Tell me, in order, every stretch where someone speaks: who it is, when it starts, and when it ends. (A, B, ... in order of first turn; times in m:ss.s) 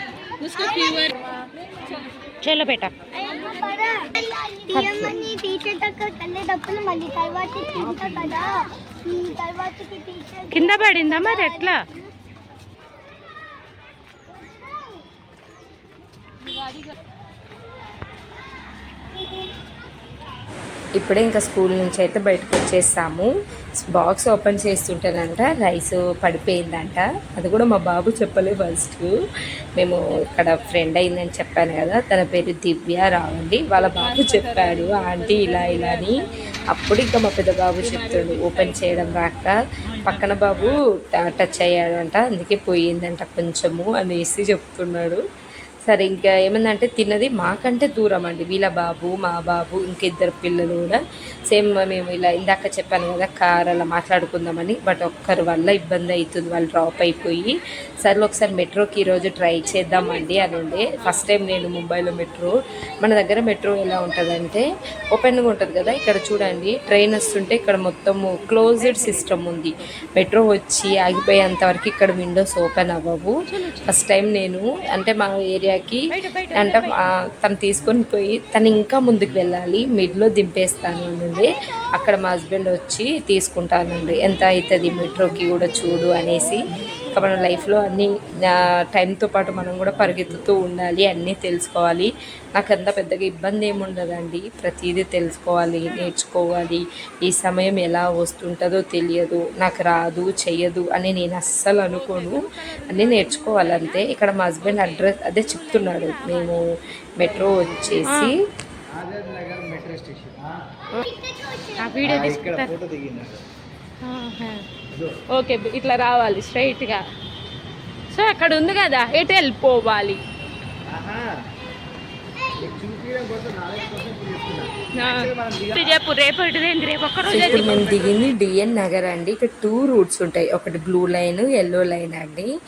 0:00.4-0:01.2 A
0:02.4-0:02.9 A
0:03.1-0:11.7 B
0:04.7-0:05.2 A
0:07.9-0:08.3 A
0:10.5-0:11.8 A
0:19.2-0:19.5 B
0:21.0-0:23.3 C
0:23.8-0:29.1 C
0:29.8-0:45.2 C
0:45.9-0:51.0 C
0:51.5-1:16.0 C
1:00.0-1:01.2 A
1:08.8-1:09.5 A
1:13.5-1:14.1 A
1:16.1-1:17.0 A
1:16.5-1:46.7 C
1:41.9-1:46.6 A
1:47.2-1:48.4 C
1:47.4-1:48.0 D
1:48.0-1:48.3 A
1:48.9-1:50.6 D
1:51.0-1:52.1 B
1:51.8-1:52.7 A
1:52.0-1:53.4 D
1:54.0-1:54.6 A
1:55.3-1:57.0 A
1:58.1-2:00.2 A
2:00.9-2:01.3 D
2:02.6-2:06.0 D
2:05.0-2:08.1 A
2:07.3-2:12.5 C
2:07.5-2:08.0 D